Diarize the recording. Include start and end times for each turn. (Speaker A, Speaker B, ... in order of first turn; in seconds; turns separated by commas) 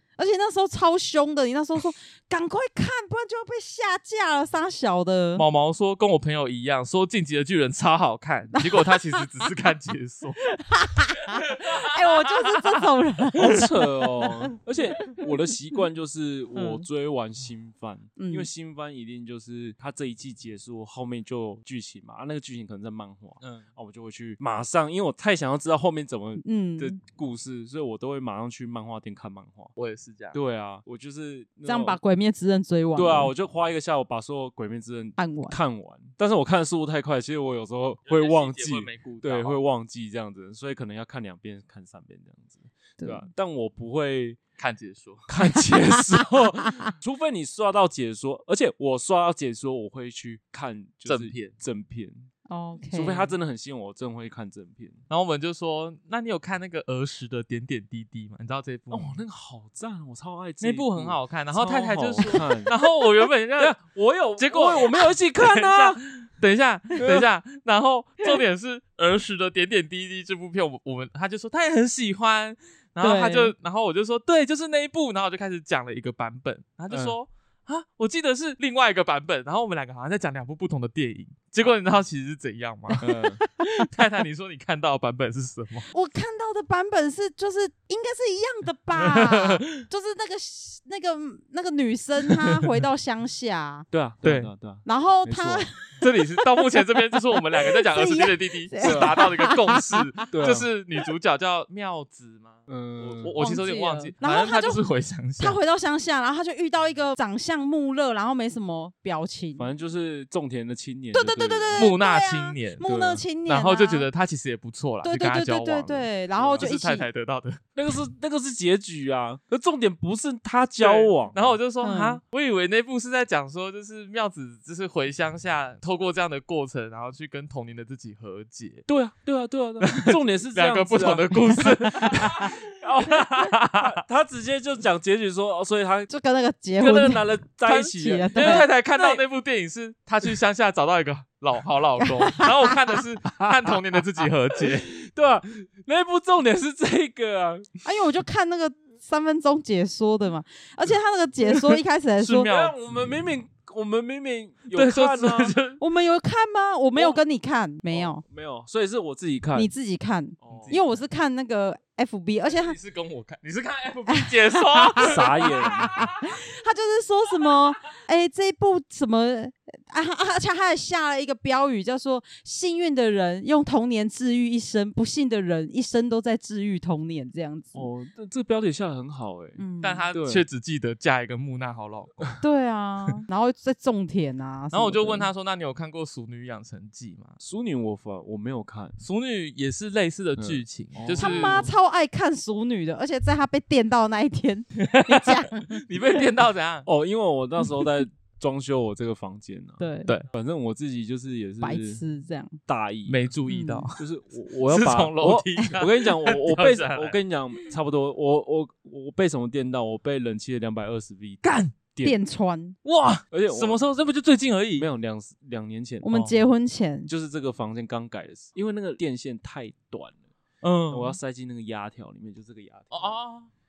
Speaker A: 0.2-5.4, Speaker B: 5.3-10.4, Speaker A: 8.5-9.4, Speaker A: 10.4-14.3, Speaker B: 11.3-12.6, Speaker C: 13.3-29.7, Speaker A: 16.5-16.8, Speaker A: 18.2-18.5, Speaker A: 26.4-27.0, Speaker B: 29.8-30.4, Speaker C: 30.3-32.0, Speaker A: 31.6-33.3, Speaker C: 33.0-44.4, Speaker A: 35.2-35.5, Speaker B: 38.1-39.6, Speaker A: 43.0-43.3, Speaker B: 44.6-45.3, Speaker C: 45.3-52.3, Speaker B: 51.0-51.5, Speaker A: 52.5-53.3, Speaker C: 52.9-55.0, Speaker B: 55.1-59.2, Speaker C: 58.9-62.8, Speaker B: 60.6-63.8, Speaker C: 63.6-66.0, Speaker B: 64.4-83.1, Speaker C: 67.0-67.3, Speaker A: 73.0-73.5, Speaker C: 76.9-77.2, Speaker C: 83.0-83.4, Speaker A: 83.4-83.7, Speaker B: 83.6-85.9, Speaker A: 85.9-93.9, Speaker B: 89.1-89.8, Speaker C: 93.9-95.7, Speaker B: 94.2-94.5, Speaker A: 94.8-100.1, Speaker B: 96.0-105.6, Speaker C: 98.8-99.2, Speaker C: 100.3-100.7, Speaker C: 102.7-103.4, Speaker A: 103.4-104.8, Speaker A: 105.4-109.7, Speaker C: 109.6-111.9, Speaker A: 111.1-114.1, Speaker B: 111.7-112.9, Speaker C: 112.8-113.2, Speaker B: 113.5-117.6, Speaker A: 115.0-117.1, Speaker C: 116.4-116.7, Speaker C: 117.8-121.6, Speaker B: 120.8-128.8, Speaker A: 121.8-122.2, Speaker C: 128.9-136.1, Speaker B: 129.8-134.0, Speaker A: 132.0-132.3, Speaker A: 136.1-137.2, Speaker C: 136.8-139.2, Speaker B: 136.8-144.9, Speaker A: 138.0-138.7, Speaker A: 142.0-142.5, Speaker C: 143.4-143.8, Speaker C: 144.5-147.8, Speaker A: 147.8-152.5, Speaker B: 152.2-152.7, Speaker C: 152.4-155.6, Speaker B: 154.7-155.8, Speaker A: 155.8-158.2, Speaker C: 156.9-157.2, Speaker C: 157.9-159.7, Speaker A: 159.5-162.8, Speaker C: 160.4-161.0, Speaker B: 160.5-160.8, Speaker B: 162.5-166.3, Speaker A: 164.1-177.9, Speaker C: 165.0-165.9, Speaker C: 177.7-180.4, Speaker A: 179.6-180.1, Speaker B: 179.8-182.3, Speaker A: 182.4-185.3, Speaker B: 184.7-187.4, Speaker C: 187.4-189.0, Speaker B: 189.0-191.7, Speaker C: 190.4-191.7, Speaker A: 191.2-195.8, Speaker B: 194.8-196.9, Speaker C: 196.8-202.0, Speaker A: 199.8-200.1, Speaker A: 201.6-202.6, Speaker C: 202.7-203.3, Speaker B: 203.1-204.0, Speaker A: 203.5-203.8, Speaker C: 204.0-212.1, Speaker B: 204.7-207.2, Speaker B: 211.4-211.7, Speaker A: 212.0-212.8, Speaker B: 212.8-214.9, Speaker C: 213.3-213.8, Speaker C: 214.8-216.2, Speaker A: 216.0-217.1, Speaker C: 217.1-220.2, Speaker B: 220.6-221.2, Speaker C: 220.9-223.2, Speaker B: 222.9-223.5